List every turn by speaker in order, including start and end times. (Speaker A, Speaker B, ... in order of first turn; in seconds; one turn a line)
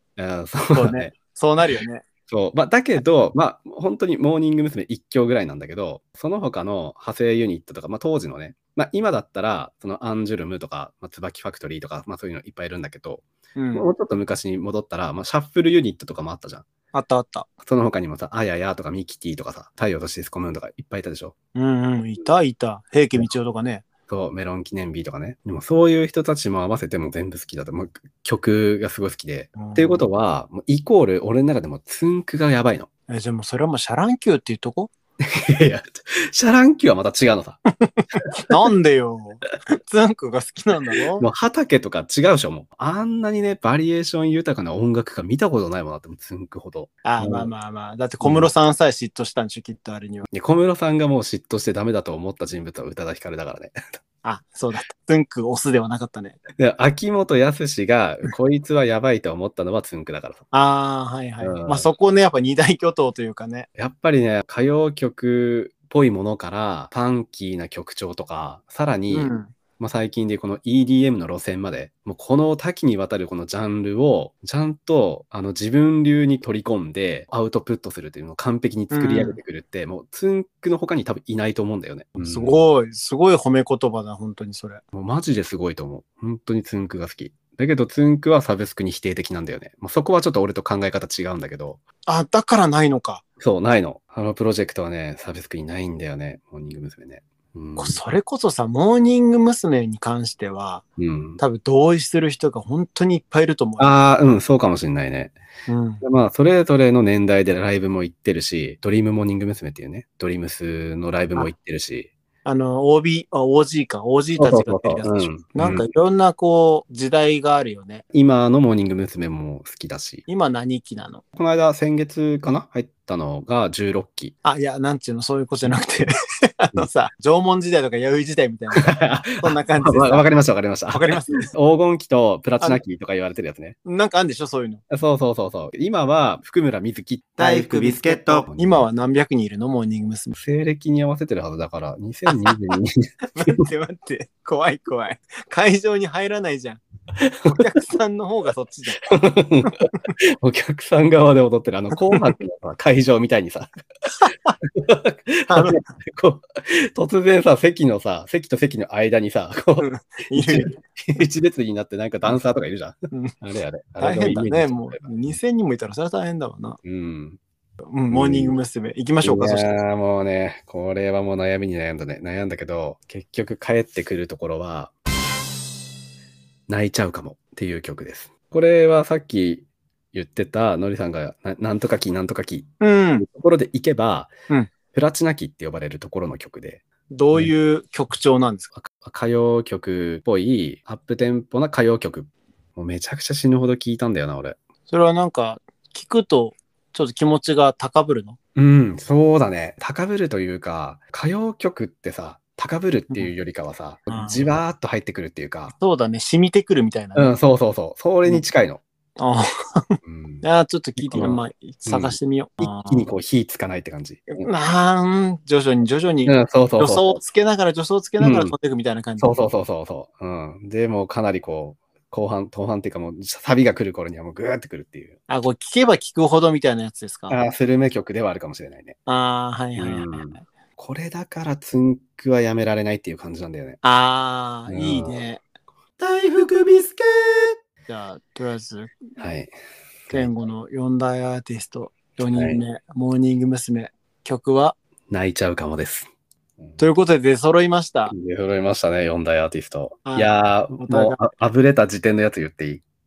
Speaker A: 0.2-1.1
Speaker B: 0.7-2.0
Speaker A: 2.3-16.6
Speaker B: 13.6-13.9
Speaker B: 16.9-17.5
Speaker A: 17.6-21.3
Speaker B: 21.5-23.9
Speaker A: 24.1-32.9
Speaker B: 29.6-30.1
Speaker B: 33.1-34.9
Speaker A: 35.2-37.6
Speaker B: 37.9-41.2
Speaker A: 41.2-47.5
Speaker B: 47.0-50.3
Speaker A: 48.2-48.5
Speaker A: 50.3-53.8
Speaker B: 54.2-56.4
Speaker A: 56.6-60.4
Speaker B: 60.5-63.7
Speaker A: 61.4-61.9
Speaker A: 63.8-82.6
Speaker B: 69.1-69.5
Speaker B: 78.9-79.4
Speaker B: 82.2-84.8
Speaker A: 84.9-91.8
Speaker B: 92.0-93.2
Speaker A: 93.4-98.0
Speaker B: 97.8-100.8
Speaker A: 101.0-101.4
Speaker B: 101.4-104.0
Speaker A: 103.8-105.3
Speaker B: 105.7-106.0
Speaker A: 106.0-112.1
Speaker B: 112.4-118.0
Speaker A: 114.4-115.8
Speaker A: 118.1-120.2
Speaker B: 120.3-121.2
Speaker A: 121.3-124.3
Speaker B: 124.4-130.3
Speaker A: 128.7-133.8
Speaker B: 130.9-131.4
Speaker B: 133.8-134.8
Speaker A: 134.9-137.4
Speaker B: 137.4-140.3
Speaker C: 137.4-138.4
Speaker A: 138.3-138.8
Speaker A: 140.3-143.6
Speaker B: 143.3-146.8
Speaker A: 147.2-147.6
Speaker B: 147.5-149.0
Speaker A: 149.1-153.7
Speaker B: 154.2-154.5
Speaker A: 154.6-165.3
Speaker B: 155.5-155.8
Speaker B: 159.8-160.8
Speaker B: 164.0-166.8
Speaker A: 166.8-167.4
Speaker B: 167.8-169.8
Speaker A: 168.1-168.6
Speaker A: 169.2-174.9
Speaker A: 176.7-184.3
Speaker B: 182.8-183.2
Speaker A: 184.9-186.8
Speaker B: 187.1-188.7
Speaker A: 188.7-194.6
Speaker B: 194.9-198.4
Speaker A: 198.6-205.7
Speaker B: 204.1-204.4
Speaker B: 205.7-207.3
Speaker A: 207.1-208.8
Speaker B: 209.2-213.1
Speaker A: 210.0-210.4
Speaker A: 211.0-214.5
Speaker B: 214.3-219.5
Speaker A: 216.2-217.2
Speaker A: 218.2-218.5
Speaker A: 219.2-225.2
Speaker B: 225.3-227.4
Speaker A: 227.3-229.0
Speaker B: 229.1-230.4
Speaker A: 229.8-233.8
Speaker B: 233.8-235.4
Speaker A: 234.7-235.2
Speaker C: 236.0-237.6
Speaker B: 237.9-238.9
Speaker A: 239.2-239.5
Speaker B: 240.1-244.8
Speaker A: 242.3-242.6
Speaker A: 245.1-246.1
Speaker B: 246.8-248.1
Speaker A: 248.1-252.8
Speaker B: 250.0-251.2